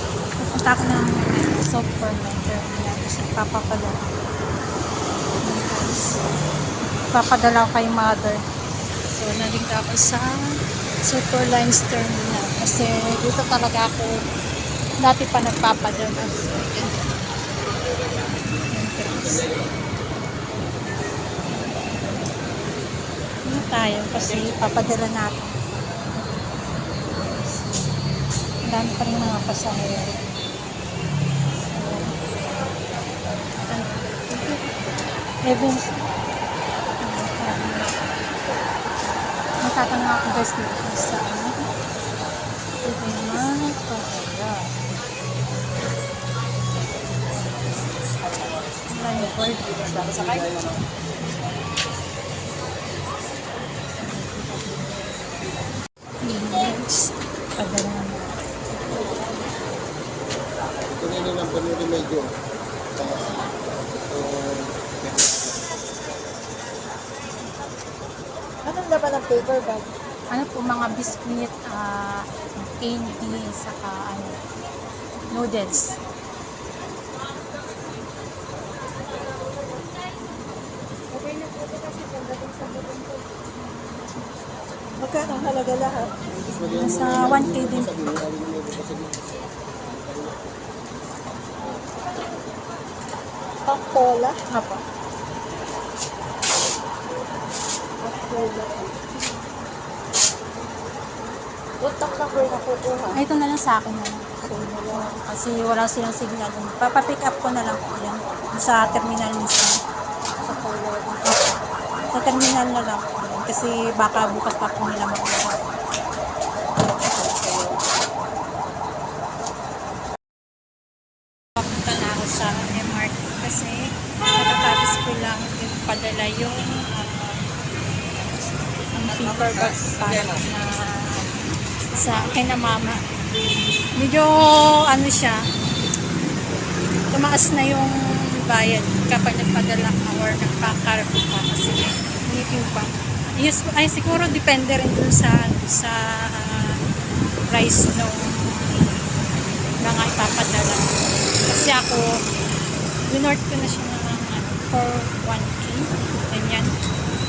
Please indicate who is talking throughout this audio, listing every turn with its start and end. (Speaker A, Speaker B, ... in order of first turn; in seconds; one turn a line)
Speaker A: 0.4-4.0
Speaker A: 5.4-6.2
Speaker A: 7.1-8.4
Speaker A: 9.1-10.3
Speaker A: 11.1-14.2
Speaker A: 15.0-17.1
Speaker A: 18.7-19.4
Speaker A: 23.5-25.6
Speaker A: 26.2-26.5
Speaker A: 27.2-27.9
Speaker A: 28.7-30.2
Speaker A: 31.7-32.1
Speaker A: 33.7-34.7
Speaker A: 35.5-36.0
Speaker A: 37.0-38.1
Speaker A: 39.6-41.5
Speaker A: 42.8-44.7
Speaker A: 48.9-50.5
Speaker A: 54.0-54.9
Speaker A: 56.2-58.3
Speaker B: 58.9-59.5
Speaker C: 61.0-62.2
Speaker B: 68.6-69.9
Speaker A: 70.3-74.4
Speaker A: 75.3-76.0
Speaker B: 81.1-83.5
Speaker B: 85.0-86.2
Speaker A: 86.6-88.1
Speaker C: 88.2-89.0
Speaker B: 93.7-94.4
Speaker A: 94.5-94.8
Speaker B: 98.0-99.1
Speaker B: 101.8-103.2
Speaker A: 103.1-109.8
Speaker B: 104.4-105.1
Speaker B: 110.4-111.2
Speaker A: 111.2-111.5
Speaker A: 112.1-115.7
Speaker B: 117.2-117.8
Speaker A: 121.6-127.4
Speaker A: 128.9-131.3
Speaker A: 131.9-133.0
Speaker A: 133.9-135.4
Speaker A: 137.1-137.9
Speaker A: 138.5-146.8
Speaker A: 147.5-148.9
Speaker A: 149.8-150.9
Speaker A: 151.5-152.1
Speaker A: 153.1-156.7